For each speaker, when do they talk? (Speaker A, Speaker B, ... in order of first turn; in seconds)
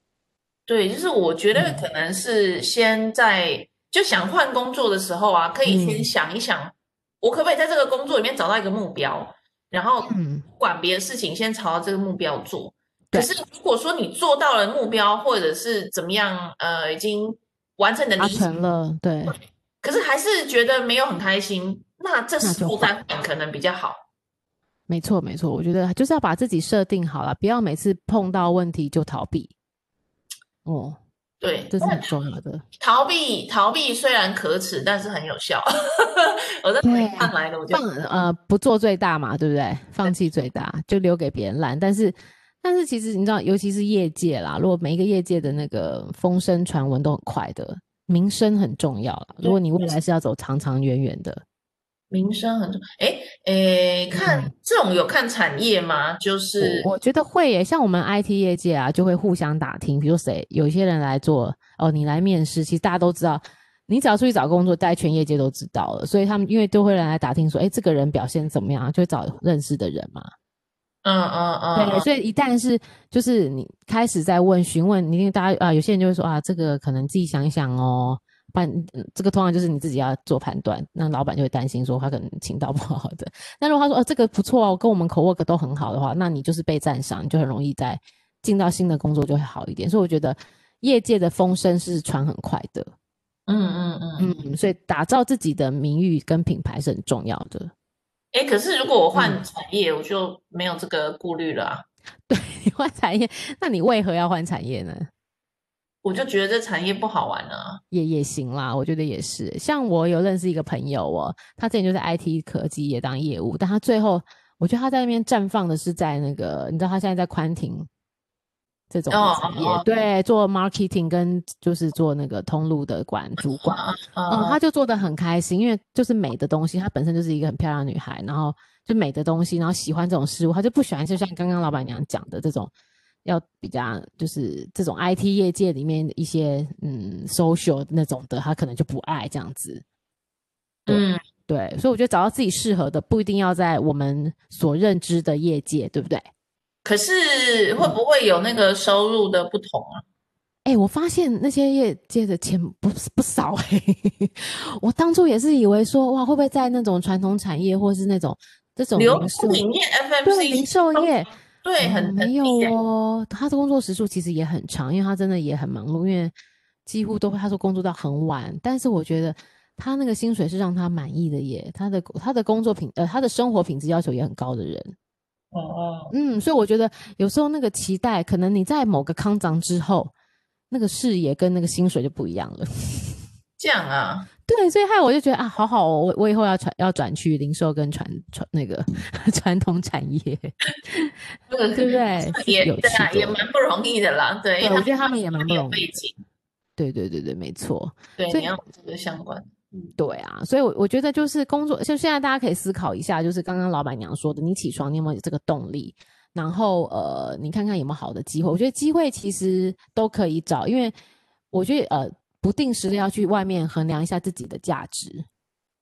Speaker A: 0.7-18.5, 19.3-24.0, 31.4-32.1, 32.8-37.8, 49.4-50.0, 52.1-56.9, 71.0-72.1, 93.5-94.3, 98.3-101.8, 106.0-107.8, 119.1-119.8, 123.6-124.6, 140.8-141.2, 146.8-150.0, 158.9-162.7, 175.5-176.1, 183.6-184.3, 191.5-196.2, 198.2-199.9
Speaker B: 1.5-1.8, 5.6-6.1, 10.0-10.4, 18.2-19.4, 22.4-22.9, 24.9-29.5, 30.6-31.0, 31.7-32.6, 36.8-51.4, 54.1-54.5, 56.6-70.3, 71.7-92.9, 94.2-97.7, 99.1-99.4, 102.3-105.1, 107.9-117.9, 118.9-132.7, 133.2-139.8, 140.9-146.3, 150.6-159.6, 160.2-166.3, 166.8-174.9, 176.1-180.1, 180.7-183.2, 184.5-191.1, 191.7-193.4, 194.6-195.8, 196.8-198.6, 200.0-210.9, 211.5-215.2